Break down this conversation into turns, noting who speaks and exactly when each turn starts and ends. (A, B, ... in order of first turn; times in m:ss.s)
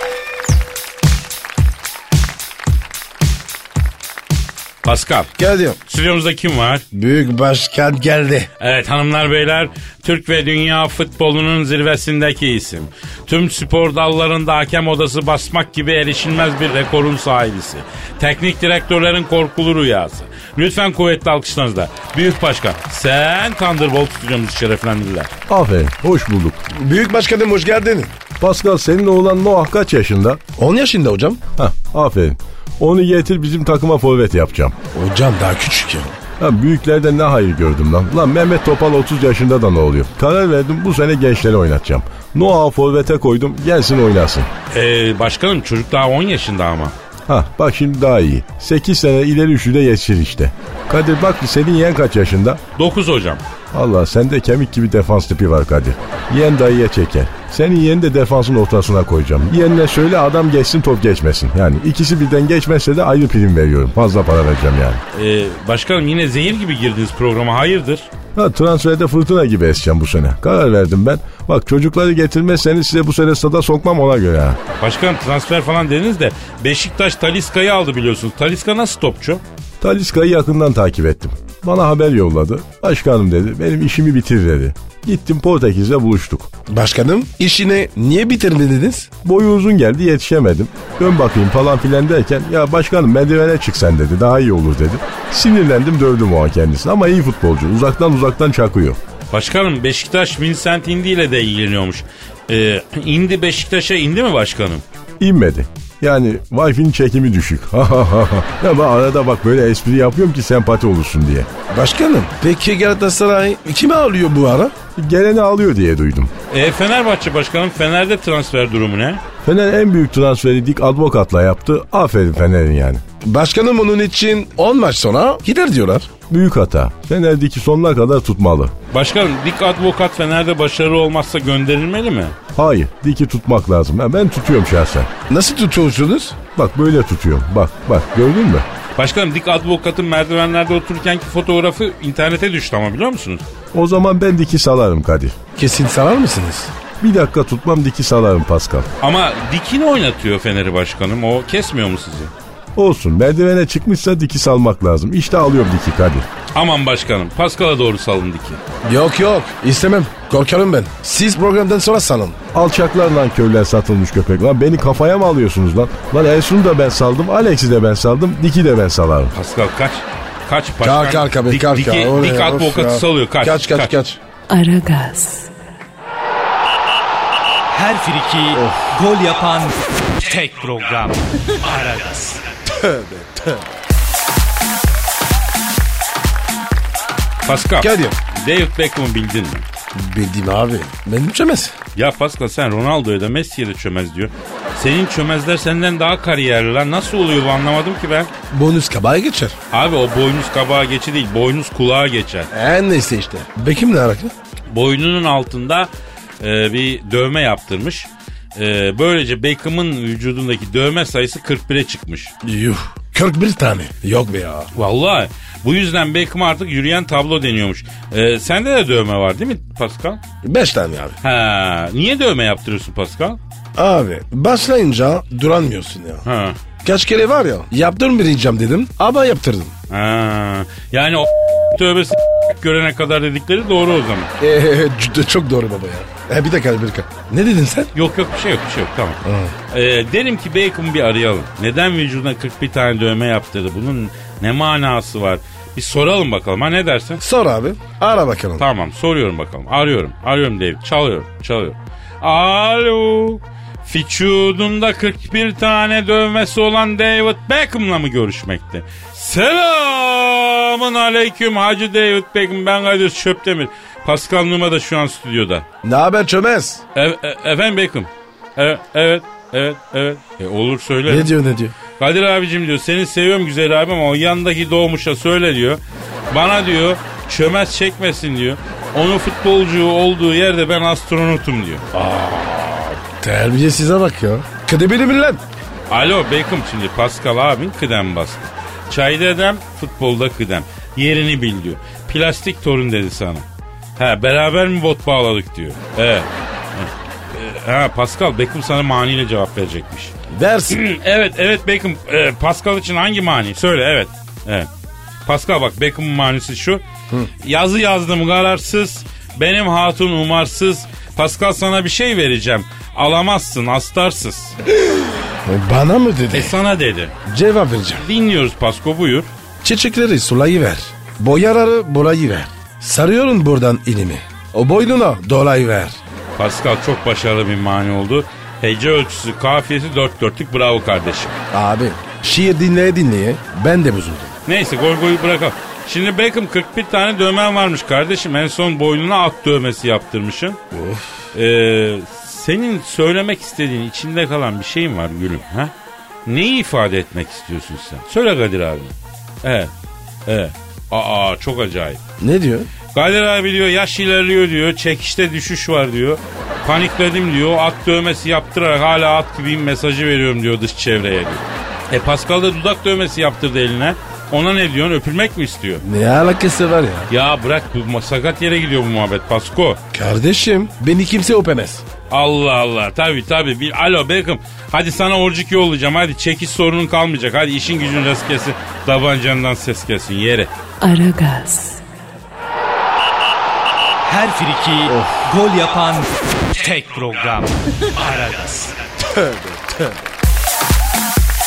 0:04.8-0:05.3 A
0:05.4-0:05.8 B
0:05.9-0:06.8 A
0:06.9-0:08.5 B
0:08.6-0:25.3 A
0:25.5-0:26.6 C
0:26.7-0:28.2 B
0:28.4-0:30.4 C
0:30.6-0:31.4 B
0:31.6-0:34.8 C
0:34.9-0:36.2 B
0:36.4-0:44.5 C
0:44.7-0:47.0 A
0:47.3-0:52.6 C
0:52.8-0:53.4 A
0:53.7-1:05.0 C
1:05.1-1:08.1 A
1:08.4-1:14.6 C
1:14.8-1:19.4 A
1:19.8-1:26.5 C
1:26.7-1:29.1 B
1:29.2-1:39.0 C
1:39.3-1:44.8 A
1:45.2-1:51.5 C
1:51.7-1:54.7 B
1:55.0-1:56.3 C
1:56.5-1:59.2 A
1:59.4-2:03.0 C
2:03.2-2:06.1 B
2:06.3-2:08.7 C
2:08.9-2:12.4 A
2:12.5-2:15.1 C
2:15.3-2:16.4 B
2:16.5-2:18.6 C
2:19.0-2:23.4 A
2:23.7-2:25.4 C
2:25.6-2:26.7 B
2:27.0-2:28.9 C
2:29.0-2:32.3 A
2:32.8-2:36.3 C
2:36.5-2:38.6 A
2:38.8-2:42.4 B
2:42.5-2:49.3 C
2:49.3-2:53.9 A
2:50.8-2:54.2 B
2:54.5-2:55.5 D
2:57.7-3:02.4 E
2:58.6-2:58.9 B
3:02.8-3:03.6 B
3:07.4-3:09.6 A
3:07.8-3:08.2 B
3:10.0-3:11.8 B
3:12.0-3:18.3 A
3:18.5-3:19.6 B
3:19.7-3:22.5 A
3:22.5-3:24.3 B
3:24.7-3:25.9 A
3:26.4-3:32.3 A
3:32.4-3:34.7 B
3:34.8-3:40.2 A
3:40.4-3:41.2 B
3:41.2-3:43.4 A
3:43.8-3:46.2 B
3:46.2-3:46.6 A
3:46.8-3:49.7 B
3:49.9-3:54.3 A
3:54.4-3:57.9 B
3:58.0-3:59.2 A
3:59.2-3:59.5 B
3:59.7-4:07.2 A
4:07.2-4:08.6 B
4:08.6-4:25.6 A
4:25.8-4:26.8 B
4:27.0-4:31.3 A
4:31.1-4:31.7 B
4:32.0-4:41.8 A
4:41.9-4:45.4 B
4:45.9-4:53.4 A
4:54.0-5:00.1 A
5:00.3-5:00.8 B
5:00.7-5:04.7 A
5:05.2-5:06.8 A
5:07.4-5:14.6 A
5:14.7-5:16.6 B
5:16.3-5:17.2 A
5:17.3-5:18.0 B
5:18.0-5:19.3 A
5:19.6-5:26.0 B
5:26.4-5:31.4 A
5:31.5-5:34.3 B
5:34.5-5:40.6 A
5:40.7-5:41.3 B
5:41.3-5:45.7 A
5:46.3-5:49.7 A
5:50.3-5:52.0 A
5:52.2-5:52.7 B
5:52.9-6:05.8 A
6:05.8-6:07.1 B
6:07.1-6:09.8 A
6:09.9-6:11.8 B
6:12.1-6:20.5 A
6:20.8-6:21.8 D
6:24.0-6:28.8 E
6:24.9-6:25.2 B
6:29.1-6:29.7 B